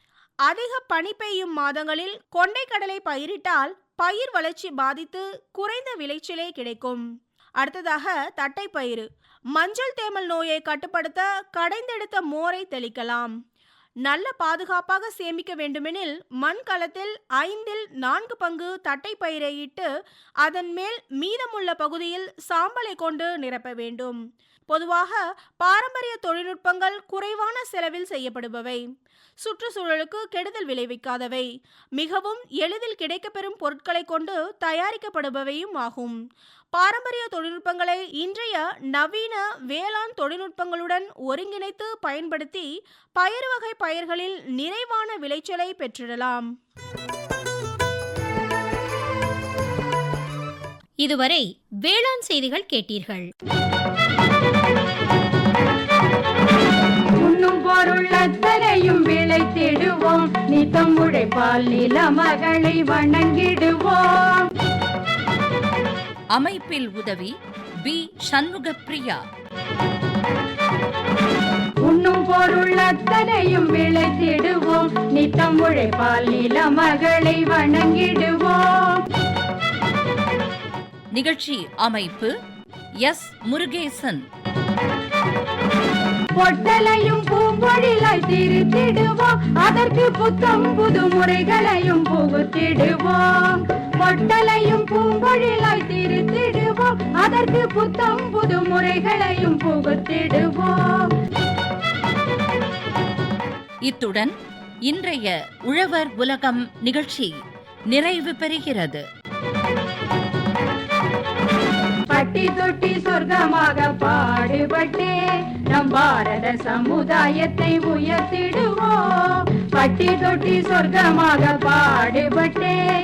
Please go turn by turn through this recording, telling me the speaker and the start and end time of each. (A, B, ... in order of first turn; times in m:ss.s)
0:00.4-0:07.0 A
0:07.6-0:13.3 A
0:14.0-0:19.9 A
0:20.4-0:28.8 A
0:29.4-0:36.2 A
0:36.7-0:46.5 A
0:51.0-0:53.3 B
0:57.2-1:04.5 C
1:06.3-1:07.3 D
1:07.8-1:09.2 D
1:11.8-1:19.0 C
1:21.1-1:22.3 D
1:23.0-1:24.2 D
1:26.4-1:41.1 C
1:43.8-1:44.3 D
1:44.9-1:47.3 D
1:47.9-1:49.0 D
1:52.1-1:55.1 C
1:55.7-2:02.8 C